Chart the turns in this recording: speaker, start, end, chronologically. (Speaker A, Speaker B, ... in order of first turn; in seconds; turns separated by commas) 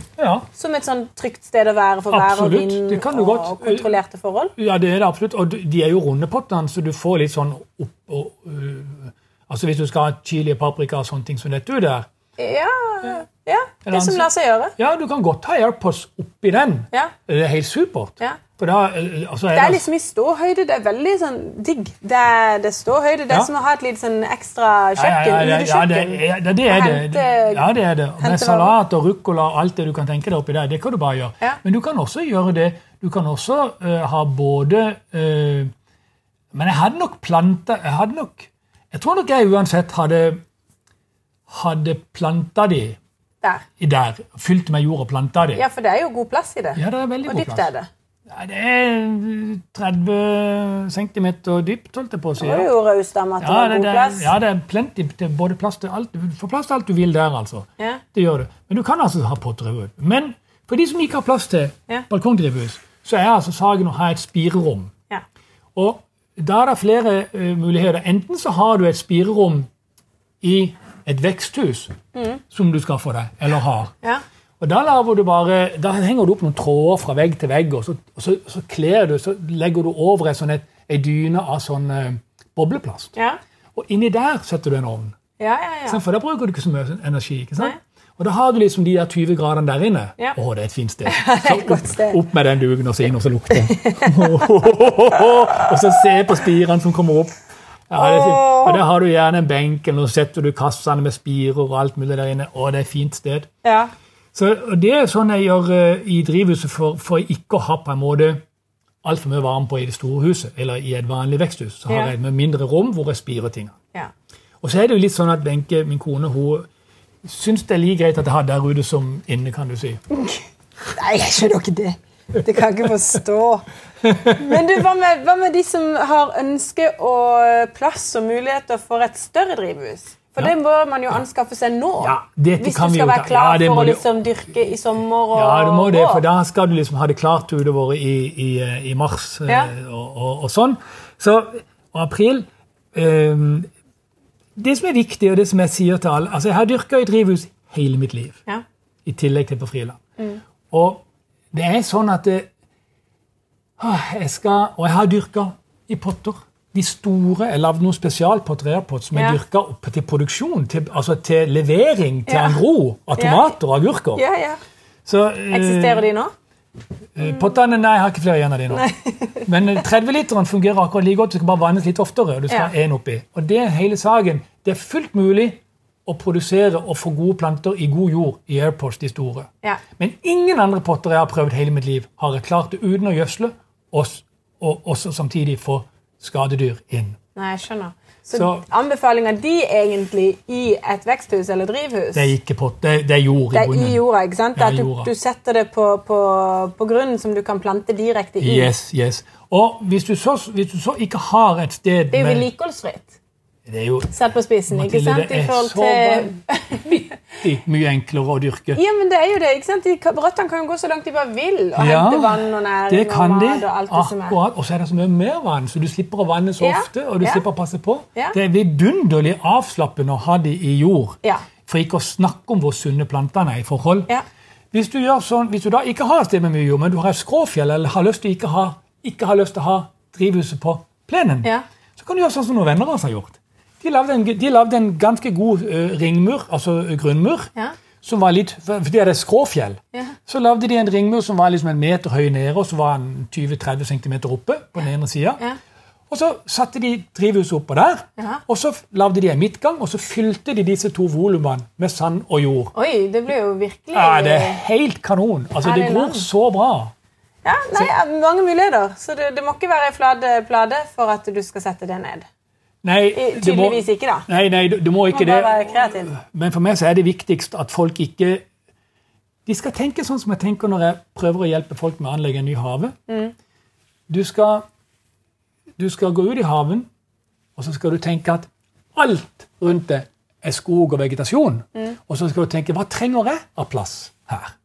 Speaker A: 0.2-0.5, Speaker B: 0.5-4.5, Speaker A: 2.1-4.0, Speaker A: 4.6-12.1, Speaker B: 12.4-14.8, Speaker A: 13.8-19.9, Speaker B: 19.5-28.7, Speaker A: 25.0-35.7, Speaker A: 36.5-40.4, Speaker A: 41.5-43.0, Speaker A: 43.8-45.6, Speaker B: 45.5-47.9, Speaker A: 46.8-47.7, Speaker A: 48.3-52.7, Speaker B: 52.4-54.3, Speaker A: 53.4-64.9, Speaker A: 65.8-69.7, Speaker A: 70.4-71.9, Speaker B: 72.1-72.4, Speaker A: 72.5-73.9, Speaker A: 74.6-83.2, Speaker A: 83.8-85.2, Speaker B: 85.4-86.0, Speaker A: 85.9-97.3, Speaker B: 91.1-92.2, Speaker A: 97.9-103.5, Speaker B: 98.0-98.8, Speaker B: 103.6-103.9, Speaker A: 104.3-108.4, Speaker A: 109.0-113.8, Speaker A: 114.6-116.7, Speaker A: 117.2-120.0, Speaker B: 121.0-123.7, Speaker A: 124.0-124.6, Speaker B: 124.2-136.2, Speaker A: 132.0-134.0, Speaker A: 135.3-143.7, Speaker B: 139.5-139.7, Speaker A: 144.6-148.4, Speaker A: 149.1-150.0, Speaker A: 150.7-152.5, Speaker A: 153.8-164.2, Speaker B: 162.3-162.6, Speaker B: 163.2-163.5, Speaker B: 164.2-164.6, Speaker A: 165.1-166.1, Speaker B: 165.5-166.3, Speaker A: 167.2-168.9, Speaker B: 168.7-169.5, Speaker A: 169.4-187.2, Speaker B: 187.3-192.3, Speaker A: 188.3-188.7, Speaker A: 192.2-194.0, Speaker B: 193.5-198.7, Speaker A: 194.6-195.1, Speaker A: 198.4-202.5, Speaker B: 202.1-203.2, Speaker A: 203.7-204.1, Speaker B: 204.1-207.0, Speaker A: 204.7-208.8, Speaker B: 208.8-214.4, Speaker A: 211.8-224.1, Speaker B: 216.6-217.4, Speaker A: 224.7-237.5, Speaker A: 238.0-245.4, Speaker A: 246.1-252.7, Speaker B: 252.7-254.6, Speaker A: 253.9-256.9, Speaker B: 255.6-256.3, Speaker B: 257.4-262.3, Speaker A: 262.8-268.5, Speaker B: 263.1-264.3, Speaker B: 265.1-266.1, Speaker A: 269.5-272.9, Speaker B: 273.1-273.3, Speaker A: 274.1-274.6, Speaker A: 275.8-276.9, Speaker A: 277.6-284.5